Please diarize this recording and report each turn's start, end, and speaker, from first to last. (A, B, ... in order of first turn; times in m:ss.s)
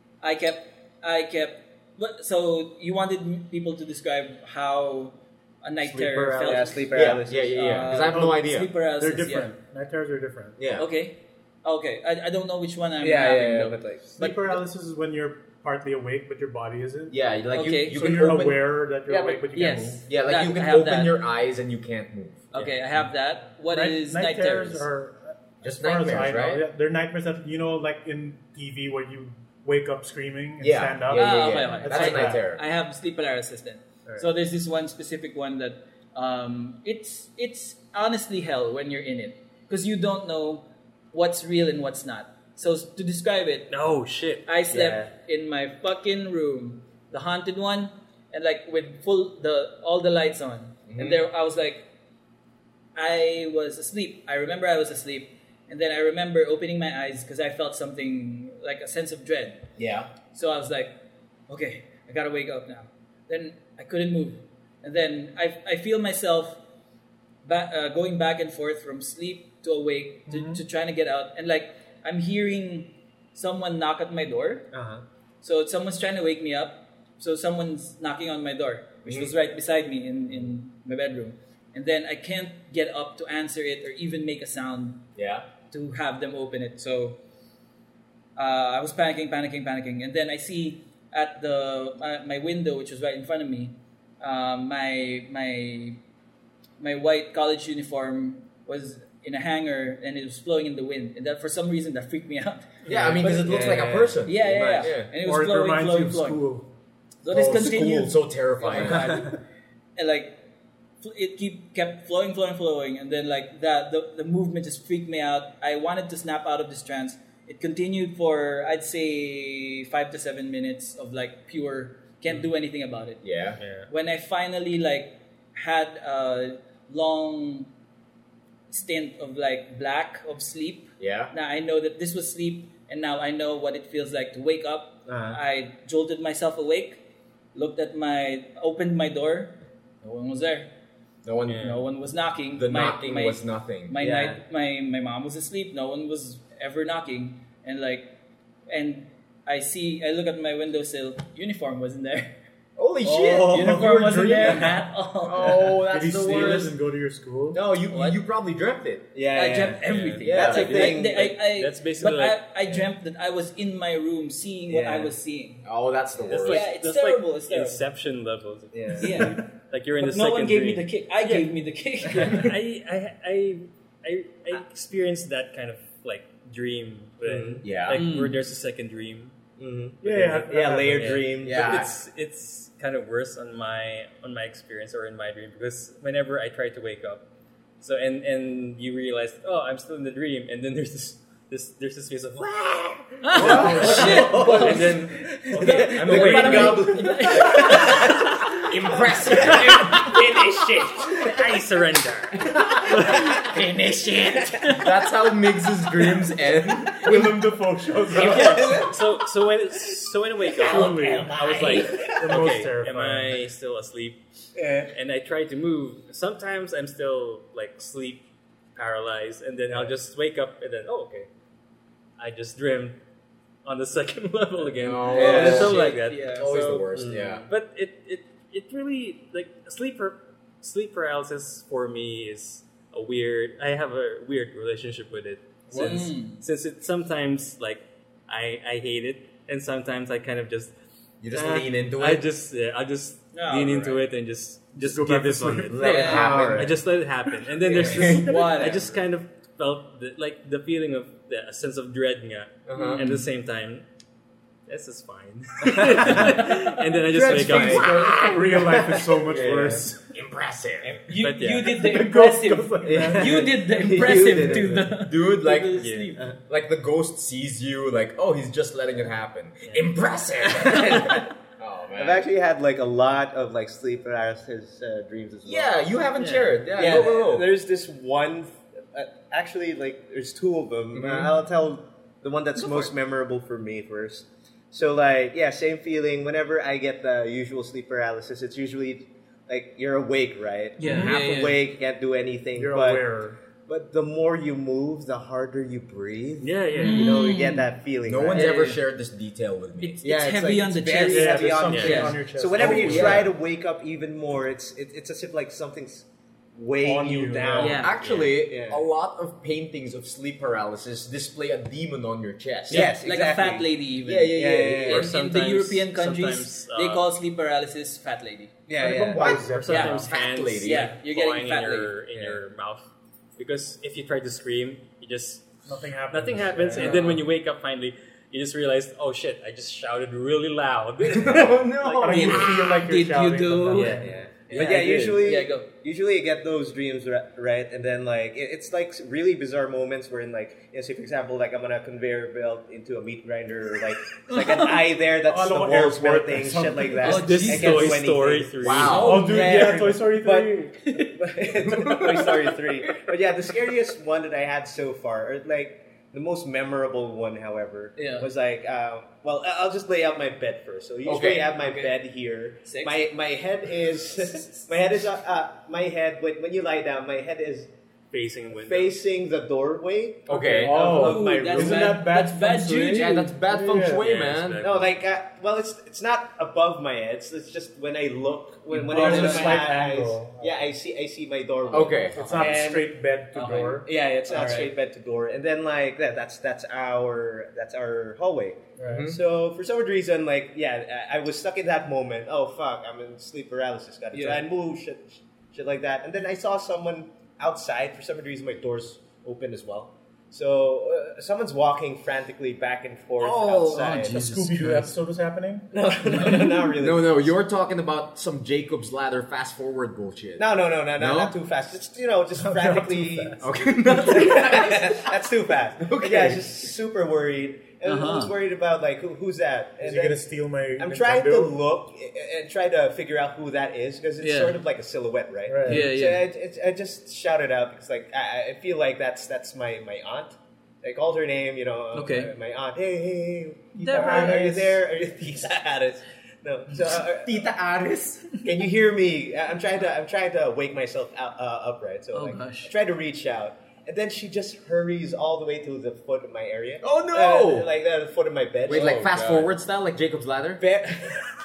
0:00.2-0:09.5 A
0:05.8-0:07.9 B
0:06.4-0:08.7 C
0:08.0-0:10.6 D
0:10.6-0:10.9 C
0:10.7-0:14.5 A
0:13.0-0:14.1 B
0:14.2-0:17.2 D
0:17.1-0:18.7 C
0:17.5-0:18.1 A
0:17.8-0:20.0 D
0:19.1-0:19.4 B
0:19.5-0:21.2 A
0:20.0-0:22.8 C
0:22.5-0:24.9 A
0:23.7-0:32.4 D
0:25.6-0:26.6 C
0:30.6-0:32.6 C
0:31.1-0:43.7 A
0:43.7-0:44.4 E
0:44.4-0:51.8 A
0:44.7-0:45.1 B
0:50.9-0:51.2 C
0:52.9-0:59.6 A
0:59.8-1:00.1 C
1:00.2-1:01.0 A
1:01.5-1:06.6 A
1:07.4-1:14.7 A
1:10.3-1:10.6 D
1:14.7-1:15.0 B
1:15.4-1:25.0 A
1:19.0-1:19.3 C
1:25.2-1:25.5 C
1:25.7-1:27.2 A
1:28.4-1:36.0 A
1:36.8-1:43.7 A
1:42.9-1:45.1 C
1:42.9-1:44.9 B
1:44.2-1:46.4 A
1:45.2-1:46.7 D
1:47.2-1:49.4 A
1:47.3-1:49.1 C
1:48.7-1:49.4 B
1:50.0-1:50.4 A
1:51.0-2:03.2 A
2:03.2-2:03.6 C
2:03.6-2:03.9 E
2:03.9-2:07.7 A
2:08.7-2:17.0 A
2:11.0-2:11.3 C
2:15.0-2:15.4 B
2:17.5-2:20.7 A
2:21.2-2:21.8 C
2:21.5-2:21.8 E
2:21.5-2:28.1 A
2:22.5-2:24.0 C
2:24.0-2:24.4 B
2:28.7-2:32.3 A
2:32.8-2:36.7 C
2:33.1-2:35.7 A
2:35.9-2:37.6 D
2:37.5-2:39.1 C
2:37.9-2:38.2 A
2:39.1-2:41.3 B
2:39.3-2:45.7 A
2:39.9-2:42.4 E
2:40.2-2:40.9 C
2:44.7-2:45.1 B
2:45.6-2:46.7 C
2:46.2-2:51.5 E
2:46.3-2:47.8 A
2:48.7-2:49.3 B
2:49.0-2:52.5 A
2:52.1-2:59.3 E
2:57.2-2:57.6 B
2:57.6-2:58.0 C
2:57.9-2:58.4 A
2:59.6-3:01.8 B
3:00.0-3:01.2 D
3:00.0-3:07.2 E
3:01.4-3:01.9 C
3:07.8-3:17.0 E
3:13.2-3:18.5 A
3:13.3-3:21.3 C
3:13.4-3:21.3 B
3:19.3-3:20.0 E
3:21.0-3:23.5 E
3:22.4-3:23.1 C
3:23.3-3:24.9 A
3:24.6-3:27.3 C
3:27.0-3:28.7 D
3:28.1-3:34.2 E
3:28.2-3:29.0 B
3:30.6-3:32.2 B
3:30.7-3:31.4 D
3:30.9-3:32.1 A
3:32.0-3:33.4 D
3:34.6-3:34.9 B
3:34.9-3:41.3 E
3:42.2-3:43.0 E
3:43.6-4:00.7 E
3:44.8-3:47.5 C
3:45.1-3:45.8 B
3:45.1-3:46.5 A
3:46.9-3:47.4 B
3:55.7-3:56.0 D
3:55.7-3:56.4 A
4:01.2-4:02.2 C
4:01.3-4:01.6 B
4:01.9-4:13.8 E
4:03.3-4:04.0 A
4:04.8-4:05.8 D
4:05.7-4:06.8 C
4:05.8-4:06.8 B
4:05.8-4:06.4 A
4:07.7-4:09.0 A
4:07.8-4:08.3 C
4:12.7-4:13.0 C
4:12.8-4:13.1 A
4:14.7-4:18.0 E
4:15.8-4:16.4 B
4:17.1-4:19.8 B
4:17.2-4:20.0 D
4:17.3-4:21.2 C
4:21.0-4:26.3 A
4:21.2-4:21.8 E
4:21.6-4:23.6 D
4:22.8-4:24.9 B
4:24.4-4:25.9 C
4:25.7-4:26.2 E
4:26.5-4:32.3 C
4:30.4-4:31.3 B
4:32.0-4:35.8 B
4:35.4-4:37.5 C
4:36.2-4:36.6 E
4:36.7-4:53.1 B
4:40.9-4:41.4 C
4:50.8-4:51.6 A
4:50.9-4:51.2 C
4:52.6-4:53.4 D
4:53.7-4:58.7 B
4:56.4-4:57.2 E
4:56.8-4:57.7 A
4:58.0-5:00.0 C
4:58.3-4:58.8 A
4:59.8-5:02.2 A
5:00.0-5:08.8 B
5:01.1-5:03.3 D
5:01.7-5:02.2 E
5:02.5-5:03.3 C
5:06.8-5:07.8 D
5:07.6-5:08.0 A
5:07.6-5:12.9 C
5:12.7-5:13.7 B
5:12.7-5:18.5 A
5:14.0-5:15.0 C
5:14.3-5:15.1 B
5:14.7-5:17.0 E
5:18.7-5:19.4 B
5:18.8-5:20.0 D
5:19.1-5:20.9 C
5:19.6-5:22.8 E
5:19.7-5:22.0 A
5:22.1-5:22.4 B
5:23.4-5:25.5 E
5:25.6-5:27.2 D
5:26.1-5:31.6 E
5:31.0-5:32.7 C
5:31.9-5:34.1 D
5:31.9-5:35.7 A
5:33.7-5:35.2 E
5:34.0-6:07.7 B
5:34.5-5:34.8 C
5:44.3-5:44.8 A
5:45.2-5:47.5 D
5:47.0-5:48.0 A
5:47.1-5:49.1 E
5:48.6-5:49.3 C
5:48.8-5:49.8 A
5:49.0-5:50.8 D
5:51.6-5:53.1 C
5:58.0-5:58.3 A
6:01.0-6:01.5 C
6:01.6-6:01.9 A
6:02.6-6:03.1 A
6:08.1-6:09.0 E
6:08.5-6:12.0 B
6:10.3-6:10.8 C
6:10.3-6:14.0 D
6:10.8-6:13.3 A
6:12.9-6:14.6 C
6:13.8-6:15.0 E
6:14.6-6:22.9 B
6:18.8-6:19.6 A
6:18.8-6:20.7 D
6:21.7-6:22.4 C
6:22.1-6:24.5 D
6:23.3-6:24.7 A
6:23.7-6:44.2 B
6:28.8-6:29.1 D
6:28.8-6:29.2 C
6:34.1-6:34.4 A
6:43.2-6:44.1 C
6:43.7-6:44.9 A
6:44.1-6:45.7 D
6:45.7-6:47.3 B
6:46.1-6:46.7 A
6:46.8-6:51.3 C
6:50.4-7:00.2 B
6:52.4-6:53.5 D
6:53.4-6:55.1 C
6:55.8-6:56.5 C
6:57.8-6:58.3 A
6:59.8-7:01.6 D
7:00.8-7:17.4 B
7:04.2-7:04.6 A
7:05.5-7:05.9 D
7:05.6-7:06.2 A
7:11.9-7:12.3 A
7:13.8-7:14.7 A
7:13.8-7:14.6 D
7:17.2-7:18.3 C
7:18.4-7:29.0 B
7:22.1-7:22.7 A
7:26.8-7:27.7 C
7:28.6-7:29.5 E
7:28.6-7:30.6 C
7:30.6-7:31.2 B